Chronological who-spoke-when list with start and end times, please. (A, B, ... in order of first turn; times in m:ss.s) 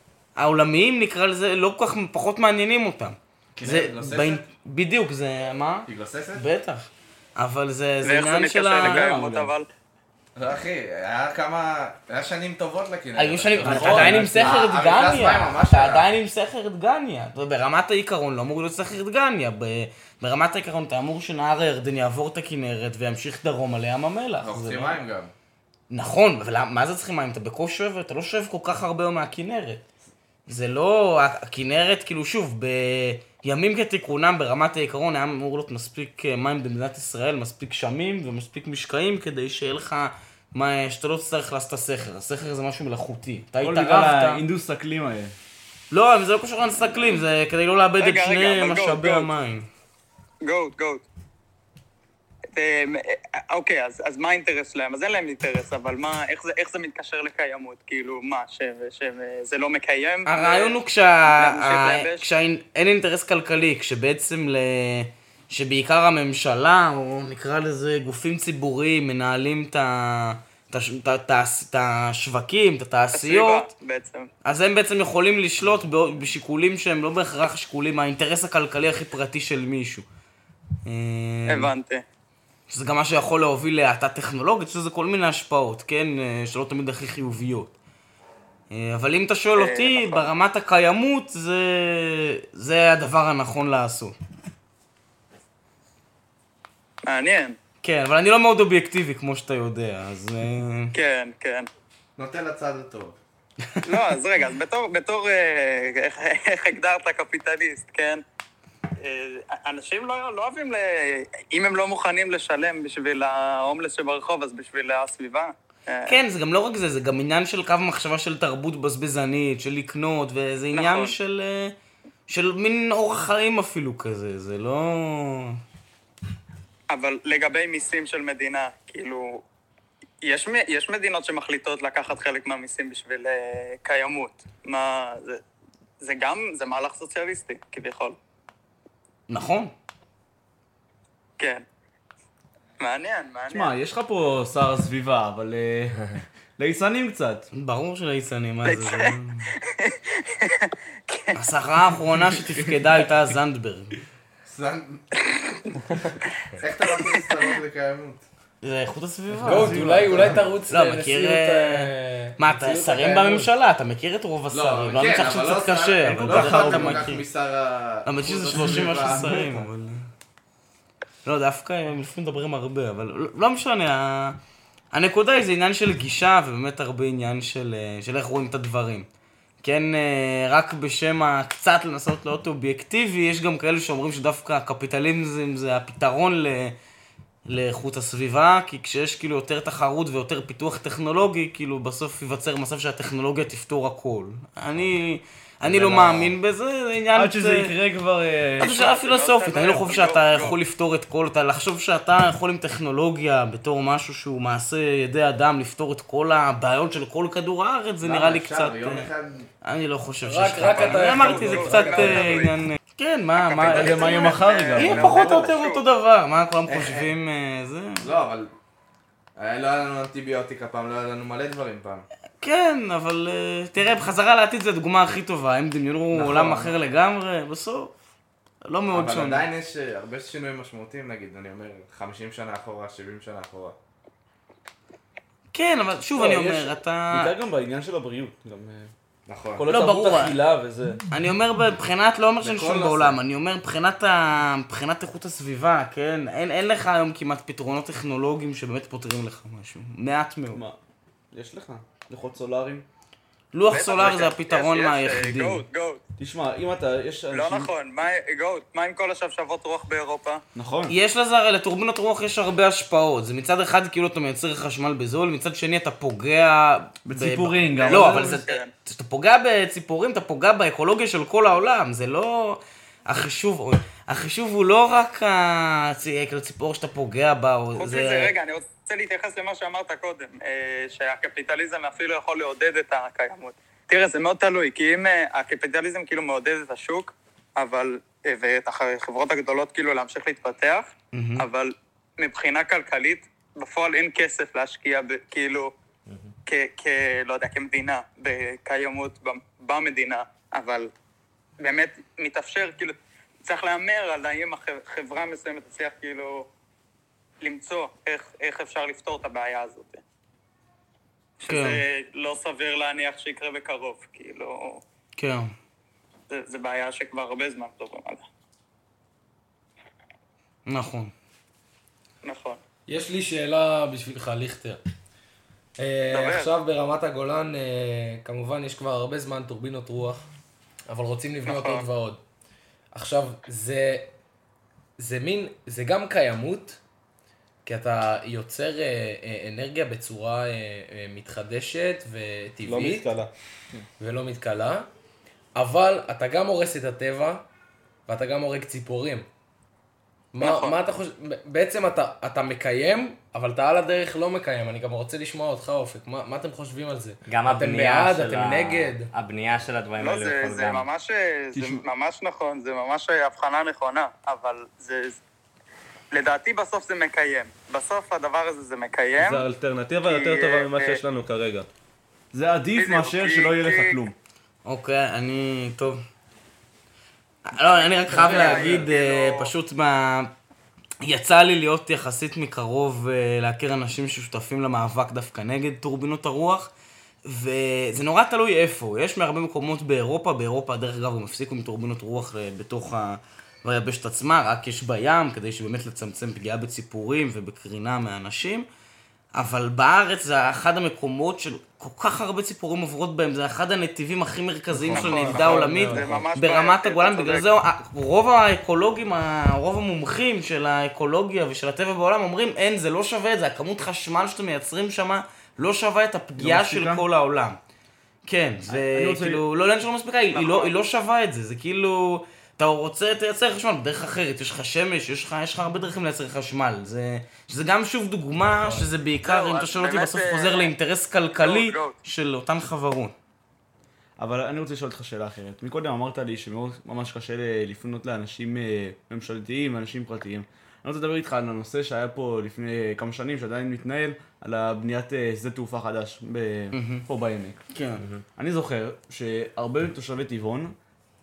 0:00.4-0:09.5 A
0:03.6-0:04.4 B
0:05.9-0:06.4 B
0:08.0-0:09.7 C
0:10.4-0:16.1 B
0:13.2-0:25.0 A
0:13.6-0:14.5 D
0:24.4-0:25.3 B
0:25.9-0:29.8 A
0:30.5-0:44.4 A
0:43.6-0:45.3 E
0:45.9-0:49.7 A
0:48.0-0:49.3 C
0:50.4-0:51.0 C
0:52.5-1:02.2 C
1:00.2-1:13.7 A
1:13.1-1:14.3 C
1:14.4-1:20.0 A
1:20.8-1:21.7 A
1:21.5-1:22.0 C
1:22.7-1:27.7 A
1:28.7-1:34.2 A
1:29.6-1:30.2 C
1:37.0-1:37.6 C
1:37.8-1:40.9 A
1:40.9-1:41.7 C
1:42.2-1:43.2 B
1:43.8-1:48.2 C
1:49.0-1:56.2 C
1:56.1-2:01.7 A
2:00.7-2:01.1 C
2:02.3-2:05.6 A
2:06.9-2:09.4 C
2:10.2-2:15.4 C
2:16.0-2:18.2 C
2:19.3-2:19.7 A
2:22.8-2:23.7 C
2:23.5-2:27.5 E
2:27.5-2:29.5 A
2:28.6-2:29.1 C
2:29.7-2:31.4 C
2:31.4-2:33.9 A
2:34.4-2:35.0 B
2:36.6-2:38.2 B
2:36.8-2:37.6 C
2:38.6-2:39.9 A
2:39.4-2:40.4 E
2:39.4-2:43.5 D
2:40.0-2:40.4 B
2:40.7-2:47.2 A
2:44.5-2:49.6 B
2:46.3-2:47.0 E
2:48.0-2:50.1 A
2:48.6-2:49.4 E
2:51.2-2:54.4 A
2:54.9-2:59.1 A
2:59.6-3:06.7 A
3:07.5-3:17.7 A
3:15.6-3:16.4 E
3:17.1-3:18.7 E
3:18.6-3:20.6 C
3:18.6-3:29.1 A
3:28.0-3:29.5 B
3:29.6-3:38.0 A
3:30.2-3:32.5 D
3:30.8-3:32.5 C
3:33.4-3:35.8 C
3:33.7-3:35.0 E
3:34.3-3:35.6 B
3:36.7-3:37.1 B
3:38.0-3:38.5 B
3:39.4-3:42.0 B
3:42.4-3:47.9 A
3:46.1-3:46.7 B
3:48.7-3:49.4 A
3:48.9-3:53.8 B
3:55.5-3:57.3 A
3:56.1-3:58.9 E
3:59.3-3:59.6 B
3:59.5-4:01.0 E
3:59.6-4:00.4 A
4:01.1-4:10.6 A
4:02.4-4:03.2 B
4:10.5-4:10.8 E
4:11.3-4:12.8 E
4:13.5-4:15.6 A
4:13.7-4:16.0 C
4:16.2-4:17.7 E
4:17.3-4:20.4 C
4:20.5-4:20.9 E
4:20.9-4:38.3 A
4:27.0-4:28.4 E
4:27.8-4:28.7 C
4:37.8-4:55.7 C
4:51.1-4:51.4 A
4:56.1-4:56.3 F
4:56.4-5:00.9 C
5:01.6-5:06.5 C
5:07.4-5:10.0 C
5:11.4-5:14.8 C
5:11.5-5:11.8 A
5:15.2-5:15.5 A
5:16.3-5:18.2 C
5:20.6-5:21.1 A
5:22.2-5:22.6 C
5:22.9-5:24.8 D
5:25.8-5:30.2 D
5:26.1-5:26.5 C
5:30.9-5:32.2 D
5:31.4-5:31.8 C
5:32.9-5:34.1 D
5:35.0-5:36.8 D
5:37.6-5:43.1 D
5:42.6-5:43.3 G
5:44.0-5:44.9 D
5:45.6-5:47.4 D
5:48.1-5:49.3 D
5:50.3-5:59.1 D
5:50.4-5:50.8 C
5:57.3-6:00.8 F
6:00.0-6:05.2 C
6:01.5-6:01.8 E
6:06.1-6:09.5 C
6:09.2-6:11.7 G
6:10.0-6:11.0 C
6:12.3-6:14.1 E
6:12.7-6:14.0 C
6:14.6-6:16.0 A
6:17.5-6:20.3 A
6:17.6-6:19.5 C
6:18.2-6:18.8 B
6:21.0-6:26.7 A
6:27.2-6:38.7 A
6:39.3-6:57.6 A
6:44.7-6:46.2 E
6:44.9-6:47.5 C
6:56.4-6:57.0 E
6:58.2-7:13.1 A
6:58.7-6:59.4 E
7:00.3-7:00.8 C
7:09.2-7:10.7 C
7:11.4-7:12.0 C
7:14.2-7:27.6 E
7:26.7-7:27.0 A
7:27.7-7:28.0 A
7:28.4-7:30.7 E